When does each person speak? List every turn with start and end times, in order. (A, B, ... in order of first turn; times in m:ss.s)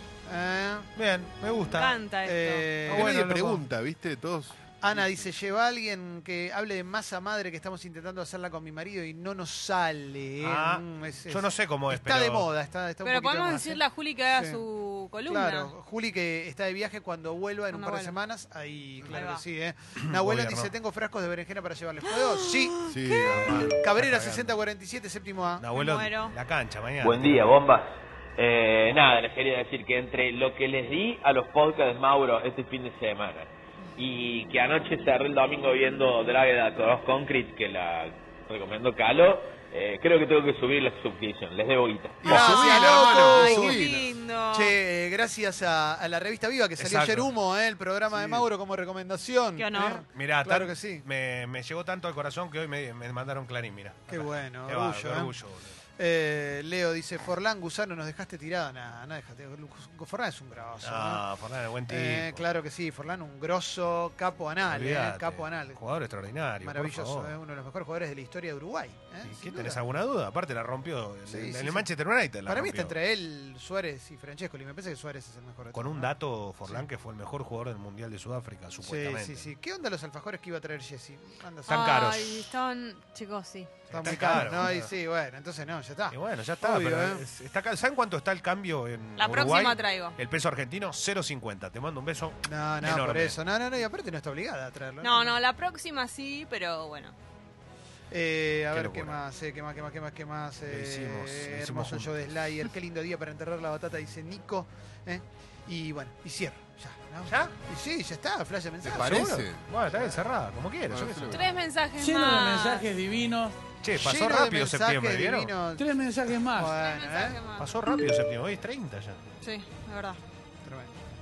0:00.3-0:00.9 A
0:01.0-0:02.0 B
0:01.7-0:02.7 C
0:02.2-0:03.6 A
0:02.9-0:05.3 D
0:04.8-0:14.6 A
0:10.4-0:12.5 B
0:13.0-0:15.7 C
0:15.2-0:22.7 A
0:17.7-0:18.2 C
0:19.1-0:19.4 C
0:20.1-0:20.7 B
0:22.1-0:23.4 C
0:22.9-0:23.8 D
0:23.3-0:24.6 B
0:23.8-0:25.6 A
0:25.6-0:27.6 B
0:25.7-0:26.3 C
0:27.0-0:42.2 E
0:42.2-0:44.0 D
0:42.2-0:43.8 A
0:42.3-0:44.7 C
0:44.5-0:51.0 A
0:46.8-0:47.3 B
0:48.1-0:48.4 D
0:49.6-0:50.0 C
0:50.1-0:55.7 B
0:54.1-0:55.3 A
0:56.0-1:01.2 A
1:00.8-1:02.4 B
1:01.9-1:05.8 A
1:04.7-1:07.3 B
1:06.6-1:09.8 A
1:09.2-1:12.9 B
1:11.3-1:11.9 A
1:12.5-1:16.1 A
1:15.7-1:19.5 B
1:18.8-1:22.0 A
1:21.7-1:22.5 B
1:21.7-1:23.7 C
1:23.9-1:24.9 B
1:23.9-1:27.2 A
1:26.1-1:33.4 B
1:29.2-1:30.2 C
1:32.4-1:35.4 A
1:35.0-1:37.1 C
1:38.1-1:49.4 A
1:38.7-1:39.2 B
1:40.7-1:42.3 B
1:47.3-1:47.5 B
1:48.8-1:49.6 D
1:48.9-1:51.5 B
1:50.9-1:51.4 D
1:51.3-1:52.9 C
1:52.0-1:53.5 F
1:53.8-1:55.5 B
1:54.0-1:57.4 A
1:55.8-1:56.8 F
1:56.8-1:57.7 C
1:57.6-1:59.2 B
1:59.4-2:00.2 C
2:00.6-2:00.9 A